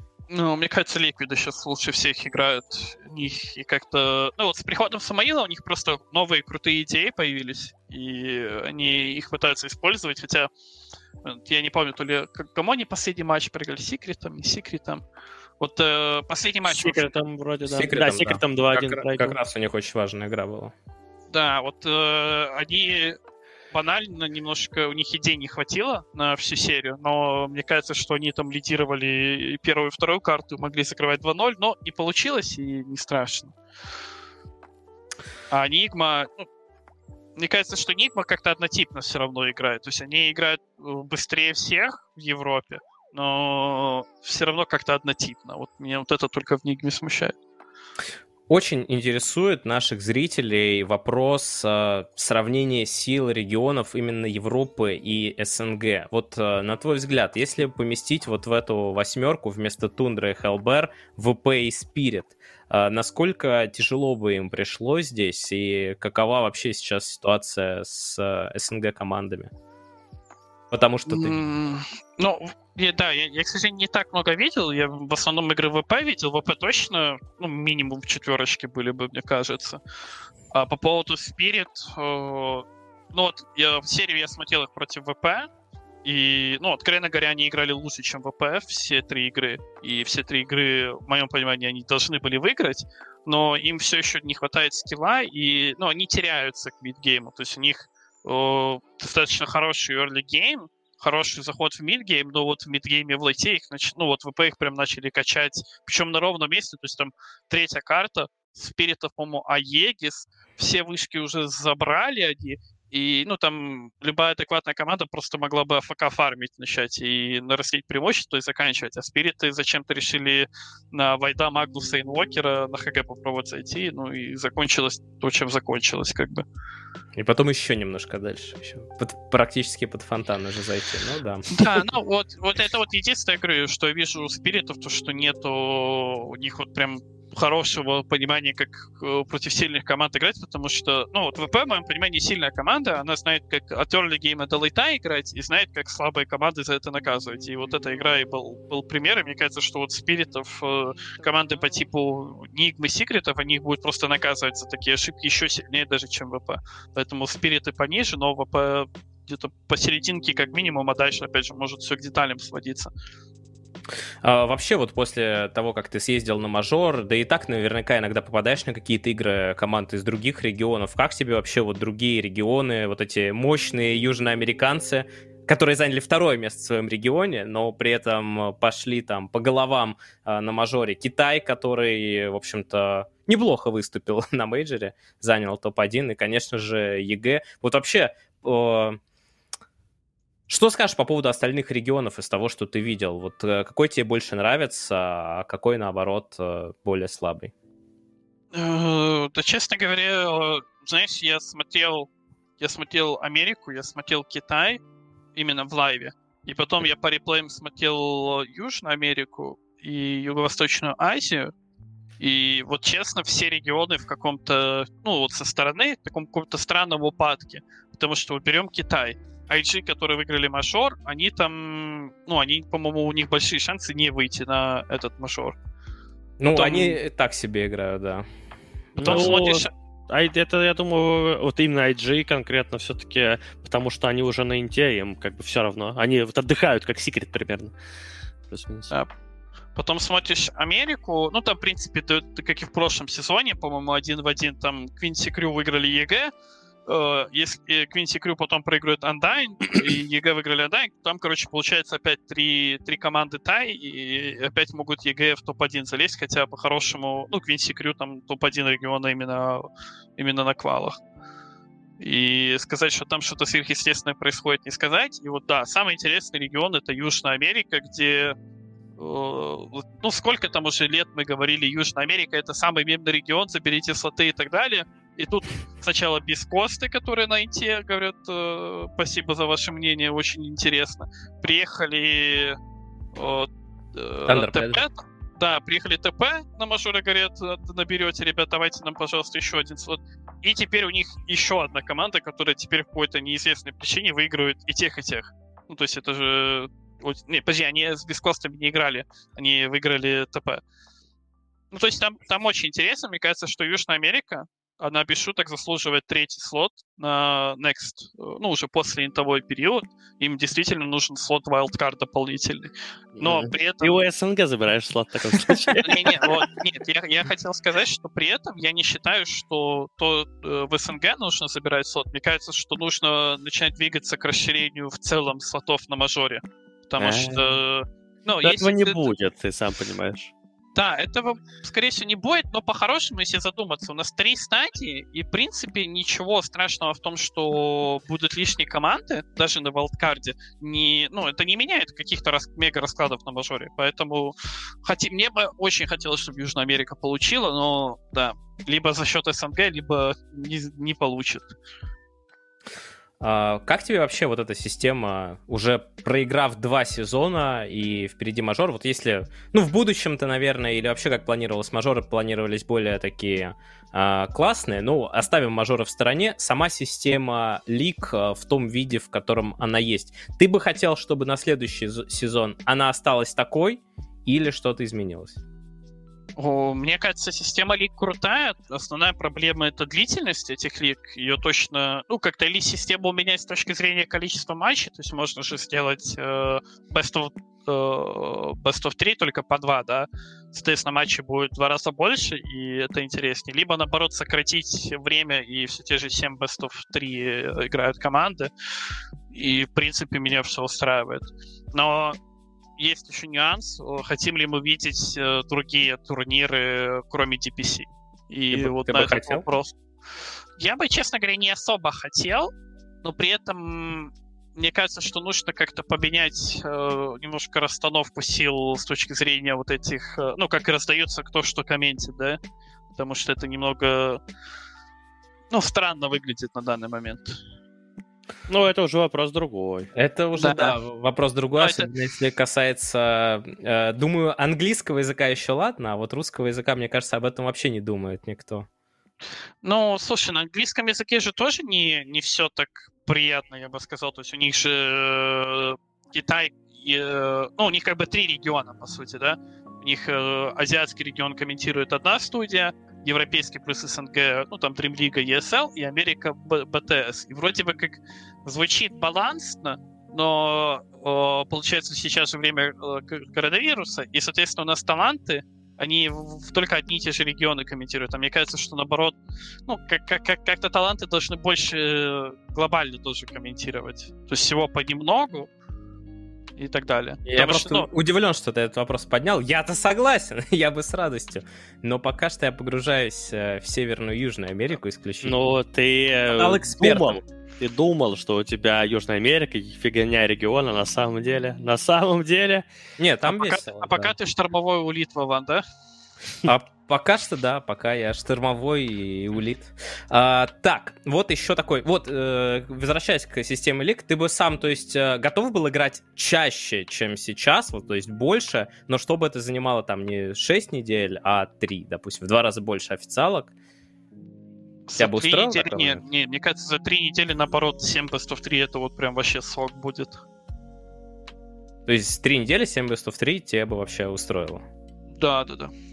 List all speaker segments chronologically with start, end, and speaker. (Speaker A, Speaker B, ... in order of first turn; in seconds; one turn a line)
Speaker A: 0.3-10.5
Speaker A: 11.2-15.0
Speaker A: 15.6-17.1
Speaker B: 16.7-19.4
Speaker C: 17.7-20.7
Speaker A: 21.3-23.2
Speaker A: 23.7-33.5
Speaker A: 35.5-36.5
Speaker A: 37.4-47.3
Speaker C: 48.5-69.5
Speaker C: 70.7-71.4
Speaker A: 71.1-79.8
Speaker A: 80.5-85.5
Speaker A: 86.0-126.4
Speaker C: 127.2-131.6
Speaker A: 131.5-162.9
Speaker C: 164.2-189.0
Speaker C: 190.5-197.5
Speaker A: 198.5-204.8
Speaker A: 205.3-211.5
Speaker A: 212.2-225.6
Speaker C: 226.4-228.2
Speaker A: 226.4-227.0
Speaker C: 228.9-229.4
Speaker B: 229.0-237.7
Speaker A: 229.0-229.7
Speaker B: 238.5-238.9
Speaker A: 239.7-246.3
Speaker A: 246.8-261.0
Speaker A: 262.0-268.3
Speaker A: 269.0-282.6
Speaker A: 283.1-300.6
Speaker C: 284.3-284.8
Speaker A: 301.7-314.0
Speaker B: 313.1-316.4
Speaker A: 315.8-329.1
Speaker B: 327.0-327.4
Speaker B: 328.4-330.3
Speaker A: 330.7-351.5
Speaker C: 353.2-375.4
Speaker A: 376.4-398.5
Speaker A: 399.3-402.2
Speaker A: 402.8-409.7
Speaker C: 408.5-409.4
Speaker A: 410.6-412.5
Speaker A: 413.0-422.4
Speaker A: 422.9-424.2
Speaker A: 425.5-427.4
Speaker B: 428.5-429.9
Speaker C: 429.9-438.7
Speaker A: 430.4-430.8
Speaker A: 431.6-431.9
Speaker A: 439.6-469.1
Speaker A: 469.7-475.5
Speaker A: 476.6-477.9
Speaker C: 477.3-485.4
Speaker B: 485.2-492.6
Speaker C: 486.3-487.2
Speaker C: 493.0-494.1
Speaker A: 493.3-495.6
Speaker C: 496.4-513.5
Speaker A: 514.9-520.1
Speaker C: 515.0-516.0
Speaker C: 521.9-524.6
Speaker A: 525.1-525.7